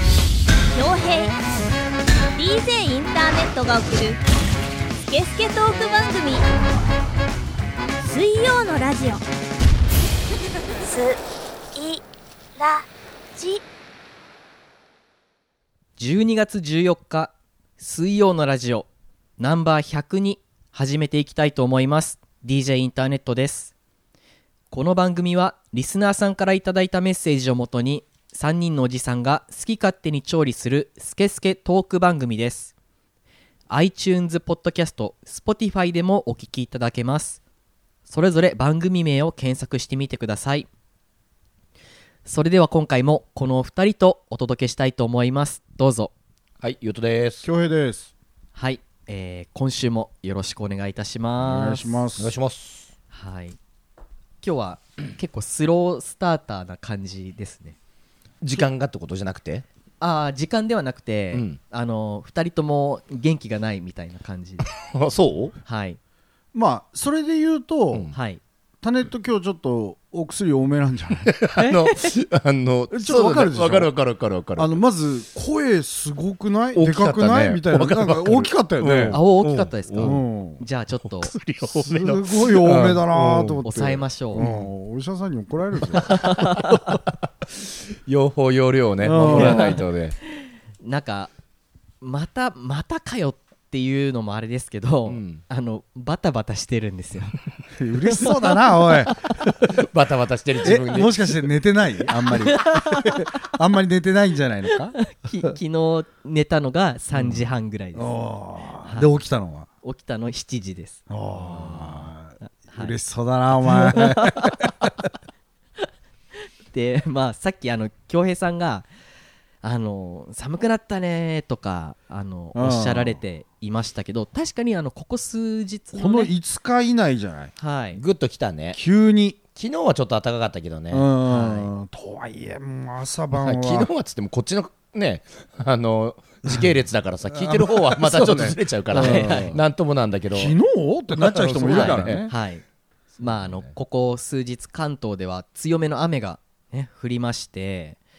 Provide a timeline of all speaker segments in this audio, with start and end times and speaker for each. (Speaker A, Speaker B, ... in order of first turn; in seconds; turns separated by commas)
Speaker A: 0.7-1.4, Speaker A: 2.4-4.2, Speaker A: 5.1-6.4, Speaker A: 8.0-9.2, Speaker B: 16.0-18.9, Speaker B: 19.4-23.7, Speaker B: 24.7-32.7, Speaker B: 33.7-37.4, Speaker B: 38.1-40.7, Speaker B: 42.2-46.1, Speaker C: 46.6-47.5, Speaker D: 47.4-48.1, Speaker B: 48.5-52.0, Speaker D: 51.4-52.3, Speaker C: 52.2-52.9, Speaker B: 53.1-53.6, Speaker B: 54.4-57.8, Speaker C: 58.4-59.6, Speaker B: 60.0-64.7, Speaker C: 61.3-61.6, Speaker C: 64.9-65.5, Speaker B: 65.7-66.0, Speaker D: 66.5-68.1, Speaker B: 68.1-68.4, Speaker D: 68.8-71.3, Speaker C: 71.2-74.8, Speaker B: 71.6-72.1, Speaker D: 72.9-73.9, Speaker D: 74.6-79.2, Speaker C: 76.7-80.2, Speaker B: 79.1-81.3, Speaker D: 80.0-80.6, Speaker C: 81.0-83.6, Speaker D: 81.7-86.4, Speaker B: 83.7-84.5, Speaker C: 84.4-84.7, Speaker B: 86.0-86.7, Speaker C: 86.1-87.0, Speaker C: 88.1-90.2, Speaker D: 89.0-89.8, Speaker B: 89.2-89.8, Speaker B: 90.8-91.3, Speaker B: 92.0-97.4, Speaker C: 95.1-95.4, Speaker D: 97.8-99.5, Speaker C: 99.1-101.4, Speaker D: 100.6-105.0, Speaker B: 102.3-103.2, Speaker B: 105.0-108.1, Speaker D: 108.0-109.7, Speaker B: 108.8-109.1, Speaker B: 109.8-113.0, Speaker D: 111.1-114.9, Speaker B: 113.6-114.5, Speaker B: 116.7-118.9, Speaker B: 119.6-126.3, Speaker D: 122.5-123.2, Speaker D: 126.0-127.5, Speaker B: 127.6-128.0, Speaker C: 127.9-128.8, Speaker D: 128.7-129.4, Speaker C: 129.6-131.1, Speaker D: 130.9-133.9, Speaker B: 131.2-131.7, Speaker C: 133.3-140.6, Speaker D: 137.3-139.6, Speaker B: 138.9-139.6, Speaker D: 140.3-142.3, Speaker C: 141.1-142.3, Speaker B: 141.7-142.6, Speaker B: 143.2-148.0, Speaker C: 143.2-143.7